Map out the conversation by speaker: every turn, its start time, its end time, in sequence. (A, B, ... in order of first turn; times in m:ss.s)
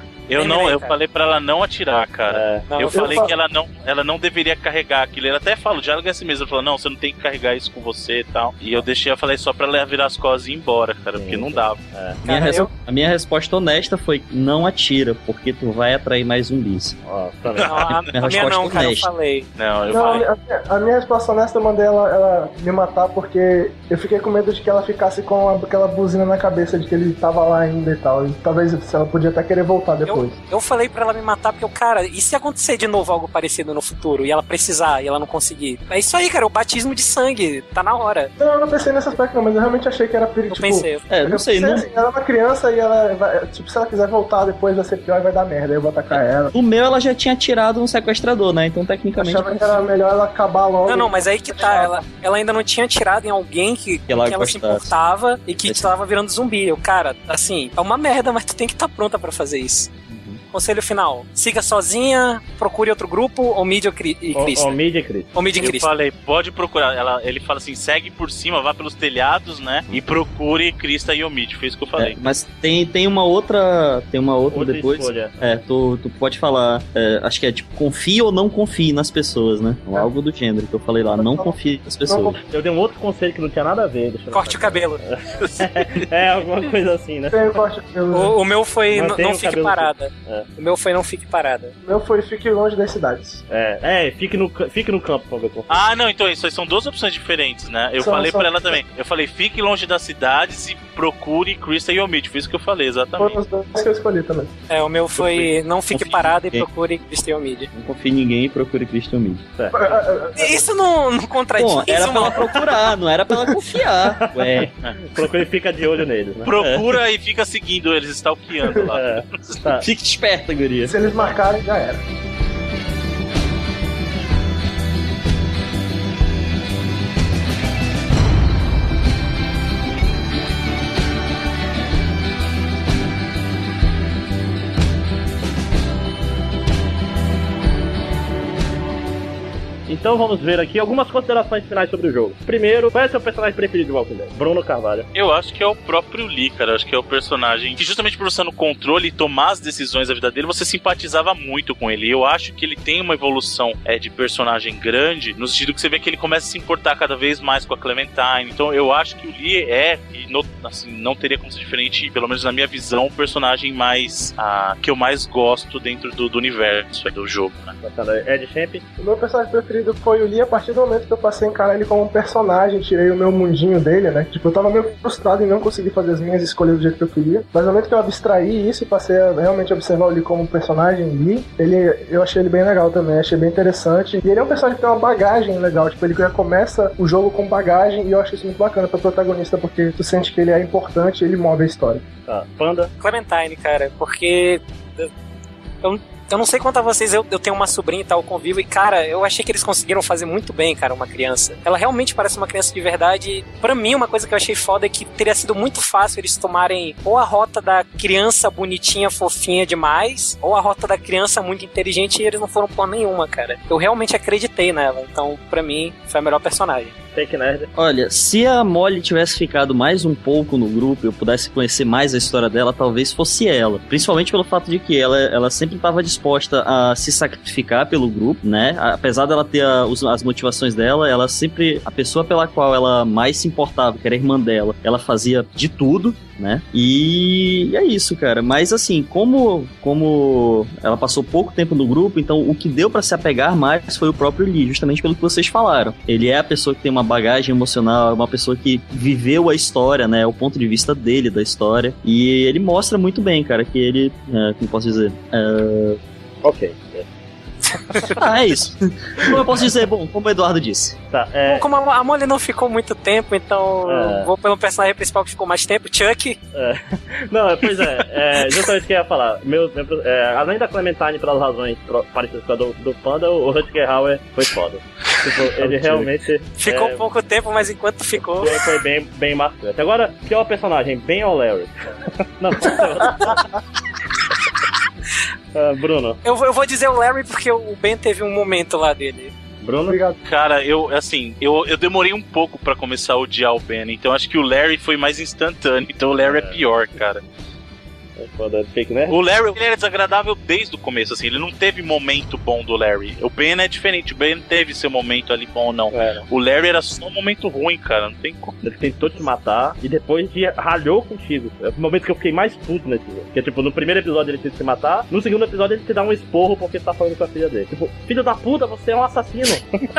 0:00.3-0:11.8 A
0:00.3-0:01.0 B
0:02.3-0:02.7 C
0:02.7-0:03.2 B
0:02.9-0:03.3 D
0:11.1-0:12.2 C
0:12.2-0:12.7 B
0:12.2-0:17.0 E
0:17.0-0:17.8 C
0:17.5-0:17.8 A
0:17.6-0:19.5 B
0:17.9-0:19.1 E
0:19.6-0:20.3 A
0:19.9-0:30.4 D
0:30.0-0:38.3 B
0:38.4-0:46.5 D
0:40.5-0:41.0 B
0:41.1-0:41.8 E
0:46.1-0:49.8 E
0:49.2-0:52.0 D
0:50.8-0:59.9 B
0:54.1-0:54.9 E
0:55.6-0:55.9 E
1:00.1-1:00.4 E
1:00.5-1:04.8 B
1:04.3-1:05.3 C
1:05.3-1:05.9 B
1:05.6-1:12.2 A
1:12.0-1:22.4 E
1:14.5-1:15.4 C
1:21.1-1:22.4 D
1:22.5-1:27.4 C
1:24.3-1:25.0 B
1:27.3-1:28.3 D
1:28.1-1:31.7 B
1:28.9-1:30.5 C
1:31.8-1:33.4 D
1:33.5-1:35.8 C
1:35.7-1:43.4 A
1:38.0-1:38.8 D
1:43.2-1:44.5 D
1:44.7-1:47.7 B
1:45.9-1:46.3 A
1:47.7-1:49.4 E
1:49.6-1:50.0 C
1:49.7-1:50.6 D
1:50.4-1:52.7 B
1:51.6-1:54.7 E
1:54.2-1:56.8 C
1:56.4-1:59.6 A
1:58.9-1:59.8 C
1:59.8-2:01.0 E
2:00.8-2:02.0 D
2:19.9-2:25.1 C
2:25.1-2:47.8 A
2:47.8-2:48.8 C
2:49.0-3:12.0 D
3:12.3-3:12.9 C
3:13.0-3:15.1 B
3:15.8-3:36.9 B
3:37.1-3:37.7 C
3:37.7-4:16.0 E
4:16.4-4:17.1 C
4:17.9-4:18.2 B
4:18.1-4:21.0 E
4:21.1-4:21.7 C
4:21.4-4:26.4 B
4:23.8-4:24.3 C
4:26.5-4:37.0 C
4:36.6-4:38.6 B
4:38.4-4:41.7 C
4:42.4-4:43.4 C
4:45.5-4:46.2 C
4:46.2-4:49.3 B
4:49.6-4:50.0 C
4:49.9-4:50.2 D
4:50.2-4:57.2 A
4:56.2-4:56.6 C
4:58.2-4:59.2 C
4:59.1-5:08.6 A
5:05.9-5:06.2 C
5:08.6-5:19.7 C